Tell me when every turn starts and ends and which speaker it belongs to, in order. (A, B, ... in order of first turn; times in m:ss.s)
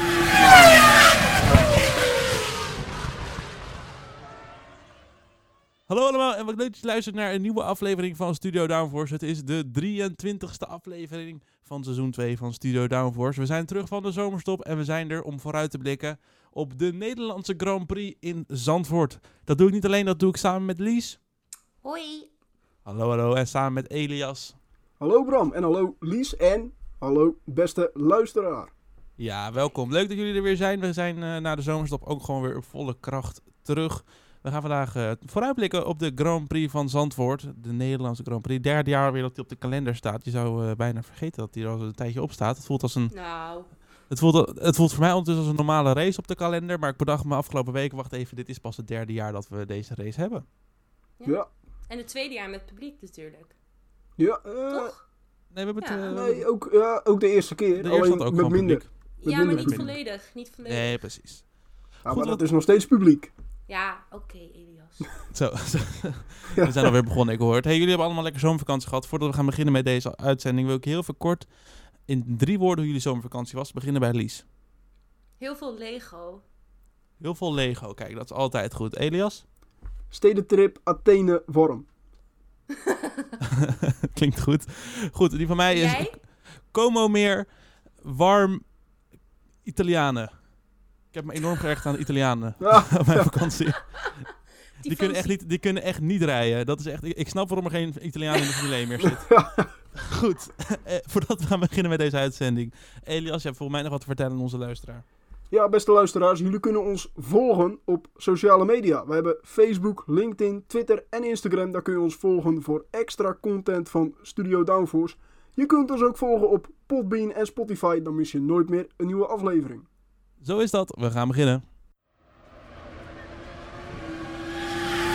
0:05.9-0:21.2 A
0:21.8-0:22.3 B
0:22.8-0:24.6 A
0:25.0-0:28.7 C
0:29.2-0:43.1 A
0:43.1-0:43.8 B
0:44.1-0:50.4 A
0:51.2-0:53.5 B
0:54.2-0:54.9 C
0:54.7-0:55.0 B
0:55.5-0:56.4 A
0:55.8-0:56.0 B
0:56.1-0:59.9 C
0:57.8-0:58.9 A
0:59.2-1:01.0 B
0:59.4-1:00.0 A
1:00.6-1:01.5 A
1:02.0-1:02.4 A
1:02.0-1:03.3 C
1:03.7-1:05.2 B
1:05.3-1:14.4 A
1:06.5-1:06.9 C
1:15.4-1:16.4 B
1:17.2-1:19.4 A
1:20.1-1:21.9 C
1:22.8-1:23.3 B
1:23.6-1:28.8 A
1:25.7-1:26.2 B
1:29.6-1:30.5 A
1:31.1-1:34.1 A
1:32.6-1:33.3 C
1:34.8-1:35.4 B
1:34.8-1:39.3 A
1:39.0-1:39.7 C
1:39.9-1:45.0 A
1:45.5-1:59.8 C
2:00.4-2:01.6 A